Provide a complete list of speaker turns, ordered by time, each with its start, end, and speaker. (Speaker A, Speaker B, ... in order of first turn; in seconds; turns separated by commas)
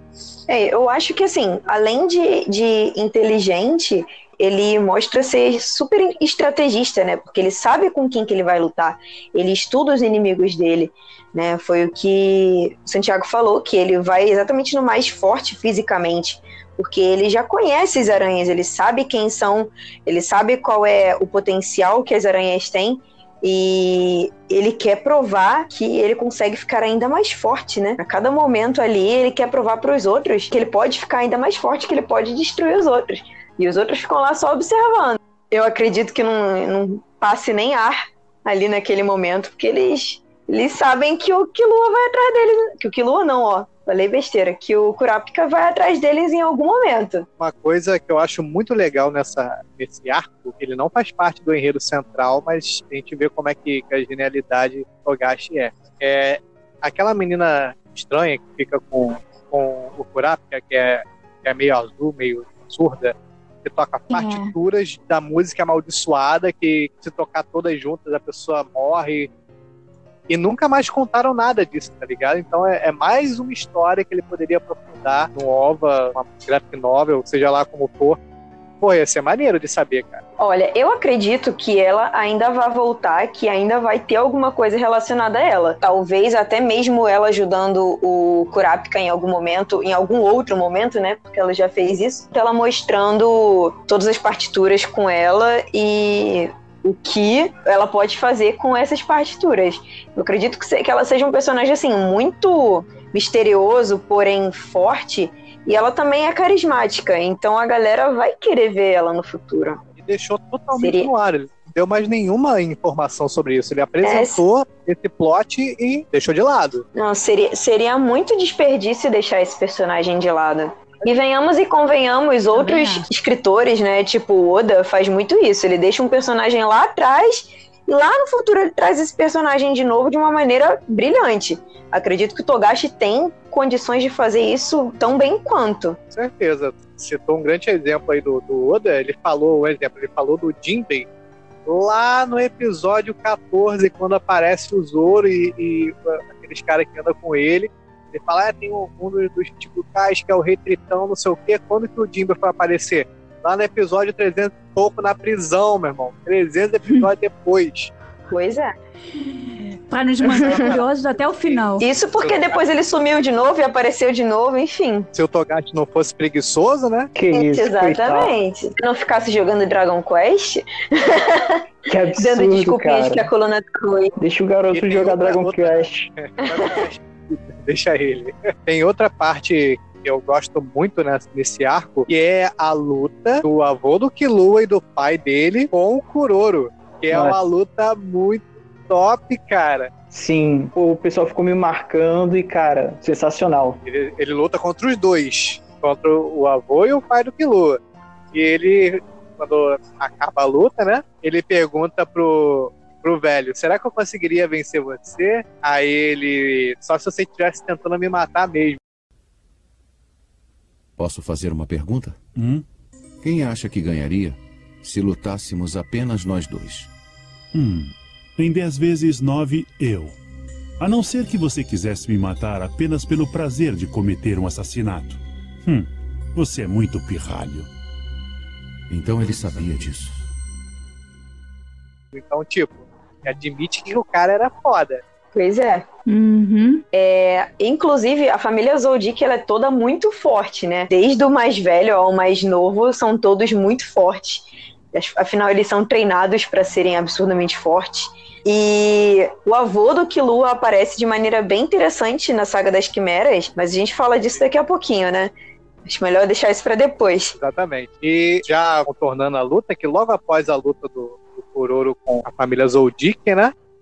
Speaker A: 0.5-47.2, Speaker B: 47.4-69.3, Speaker C: 64.1-64.5, Speaker B: 70.3-78.2, Speaker B: 78.8-80.2, Speaker A: 80.4-109.8, Speaker B: 110.0-116.8, Speaker A: 110.7-111.1, Speaker A: 114.0-114.4, Speaker A: 117.0-136.0, Speaker C: 122.5-123.1, Speaker B: 136.1-141.1, Speaker B: 141.7-157.9, Speaker A: 158.3-158.7, Speaker C: 159.2-161.8, Speaker B: 160.2-162.6, Speaker A: 160.4-160.8, Speaker A: 161.8-165.1, Speaker B: 165.1-167.1, Speaker D: 167.1-168.3, Speaker A: 167.3-171.6, Speaker D: 171.9-173.3, Speaker A: 172.2-174.1, Speaker D: 174.2-176.1, Speaker B: 174.7-189.9, Speaker A: 176.4-176.8, Speaker D: 187.1-187.4, Speaker D: 190.1-193.8, Speaker B: 193.8-197.8, Speaker B: 198.3-208.8, Speaker E: 211.0-212.2, Speaker F: 212.3-212.6, Speaker E: 213.2-216.9, Speaker F: 217.5-220.2, Speaker F: 220.8-227.7, Speaker E: 228.9-230.2, Speaker B: 232.1-235.0, Speaker A: 235.3-235.8, Speaker C: 236.1-236.8, Speaker A: 236.9-255.3, Speaker A: 255.8-257.3, Speaker B: 257.4-263.5